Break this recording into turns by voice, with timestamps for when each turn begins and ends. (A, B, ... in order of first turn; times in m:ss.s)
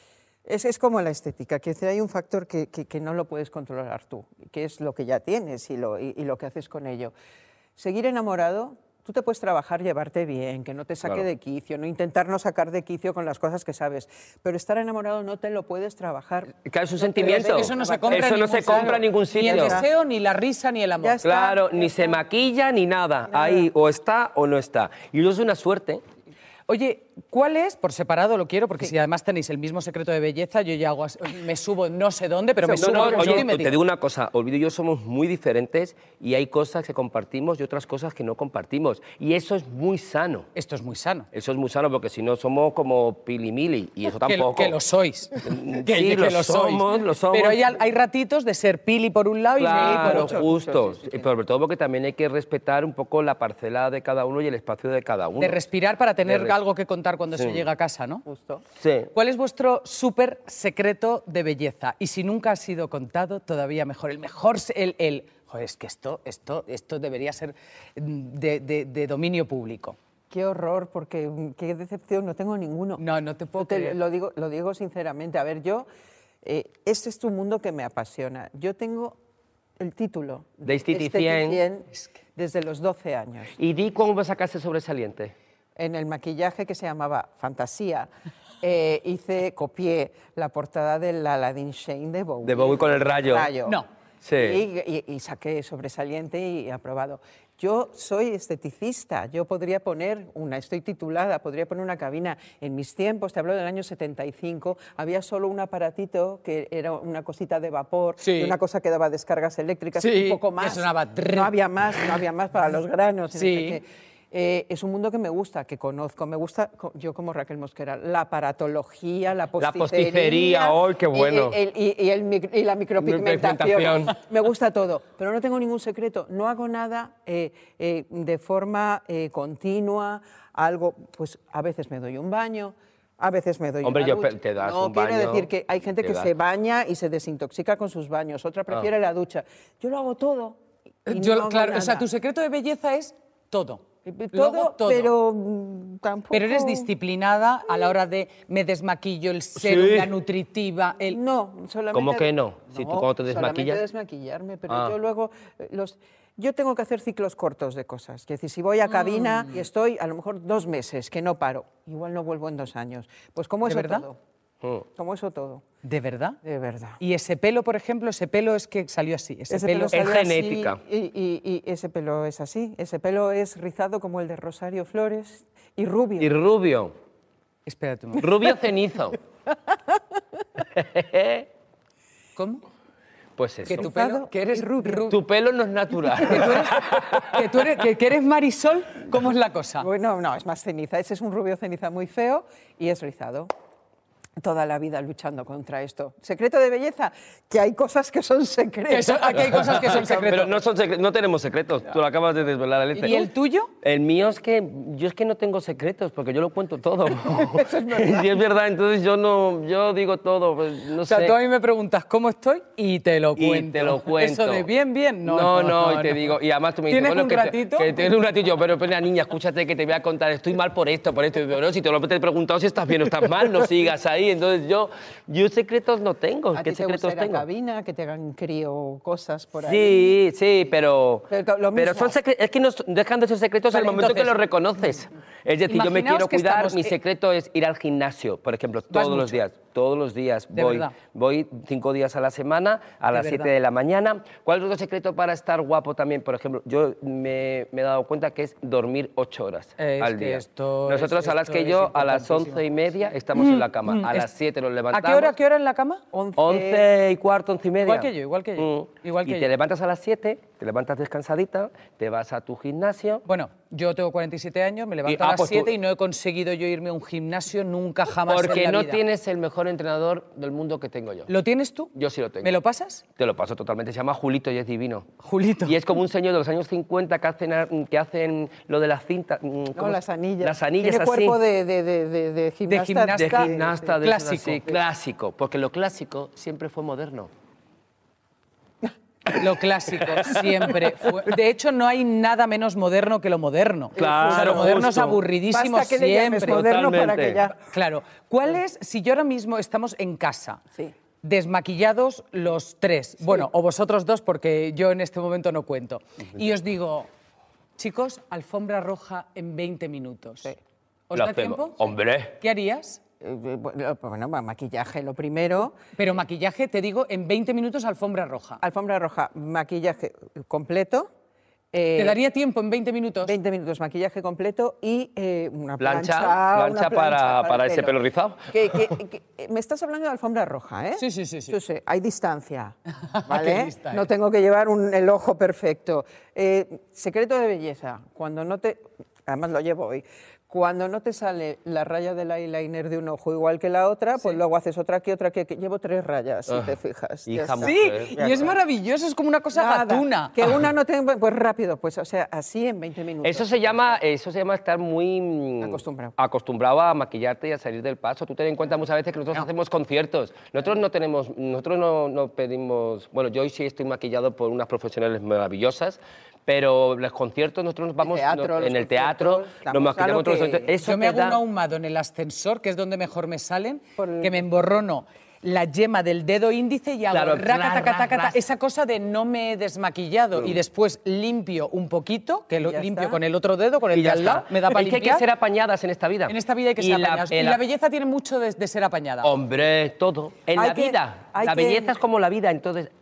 0:00.5-0:07.1 A
0:07.8-0:19.9 A
0:16.6-0:19.8 B
0:17.2-0:21.2 C
0:21.0-0:22.2 A
0:21.2-0:26.0 B
0:23.3-0:23.7 A
0:26.7-0:33.8 C
0:32.6-0:33.5 A
0:32.7-0:40.5 B
0:40.6-0:41.3 C
0:41.3-0:44.8 B
0:44.2-0:50.4 C
0:45.4-0:47.6 B
0:49.6-0:55.6 B
0:49.7-0:51.3 A
0:55.4-0:58.2 C
0:56.3-0:56.6 B
0:57.4-0:57.6 B
0:58.3-0:58.6 A
0:58.8-0:59.1 B
0:59.1-1:10.0 C
1:10.3-1:13.0 A
1:13.0-1:14.0 C
1:13.6-1:15.9 A
1:16.4-1:19.2 A
1:19.8-1:23.6 A
1:20.6-1:21.6 B
1:23.6-1:25.3 B
1:25.8-1:28.1 A
1:28.6-1:33.8 A
1:32.4-1:33.5 B
1:34.2-1:34.6 B
1:34.4-2:22.1 A
1:48.2-1:48.6 C
1:50.0-1:52.0 C
1:53.3-1:53.8 C
1:59.6-2:01.6 B
2:03.0-2:04.2 B
2:13.8-2:16.3 B
2:21.1-2:25.1 C
2:24.1-2:26.9 A
2:26.3-2:31.2 C
2:29.6-2:30.1 B
2:31.1-2:44.2 A
2:31.9-2:33.8 B
2:34.7-2:34.9 B
2:38.9-2:39.6 C
2:43.6-2:44.1 C
2:44.9-2:45.6 A
2:45.8-2:46.4 C
2:46.4-2:47.0 A
2:47.0-2:50.0 C
2:49.5-2:56.3 A
2:49.9-2:50.8 B
2:56.2-2:56.9 B
2:57.7-2:58.3 C
2:58.2-2:59.2 B
3:00.7-3:01.5 B
3:02.4-3:02.6 C
3:03.4-3:03.9 B
3:03.7-3:05.2 C
3:03.7-3:05.1 A
3:05.1-3:07.6 B
3:06.2-3:09.9 C
3:09.8-3:13.5 A
3:14.4-3:20.2 A
3:18.9-3:20.6 C
3:19.6-3:23.3 B
3:23.0-3:23.7 C
3:23.8-3:31.4 B
3:27.3-3:28.4 A
3:31.0-3:36.3 C
3:33.4-3:34.7 B
3:35.2-3:47.4 B
3:36.9-3:38.1 C
3:46.5-3:50.2 A
3:49.6-4:15.4 B
3:51.3-3:52.2 A
3:53.7-3:54.3 C
3:55.7-3:57.0 C
3:58.9-3:59.4 C
4:00.6-4:00.9 C
4:03.1-4:03.5 C
4:09.8-4:12.6 C
4:13.4-4:14.3 C
4:14.9-4:16.0 C
4:16.1-4:16.9 A
4:16.4-4:23.2 B
4:17.8-4:19.5 C
4:23.3-4:29.0 C
4:25.1-4:25.7 B
4:28.3-4:31.3 B
4:31.3-4:31.9 C
4:32.0-4:32.5 B
4:32.4-4:33.0 C
4:33.2-4:35.1 B
4:35.2-4:35.8 C
4:35.6-4:41.4 B
4:39.8-4:43.8 A
4:42.7-4:44.8 C
4:43.1-4:47.3 B
4:49.3-4:56.6 C
4:50.0-4:50.8 B
4:54.0-4:55.2 B
4:54.0-4:54.9 A
4:55.5-4:57.6 A
4:56.4-4:57.4 B
4:57.6-5:00.6 C
5:01.2-5:07.1 C
5:07.8-5:10.5 C
5:11.1-5:13.0 C
5:11.1-5:12.4 B
5:13.2-5:15.8 A
5:16.0-5:18.6 C
5:18.6-5:21.1 A
5:21.7-5:22.2 A
5:22.0-5:23.3 C
5:23.2-5:28.0 A
5:25.8-5:28.9 B
5:28.5-5:48.5 A
5:31.0-5:31.6 C
5:33.1-5:34.0 C
5:47.3-5:48.4 B
5:47.6-5:50.4 C
5:49.5-5:54.0 A
5:53.2-6:11.4 B
5:55.6-5:56.2 A
6:08.0-6:10.9 A
6:10.8-6:25.2 C
6:14.0-6:14.4 A
6:17.1-6:18.4 B
6:22.6-6:23.2 A
6:23.9-6:27.6 B
6:26.3-6:29.3 C
6:29.2-6:32.9 B
6:30.6-6:32.0 A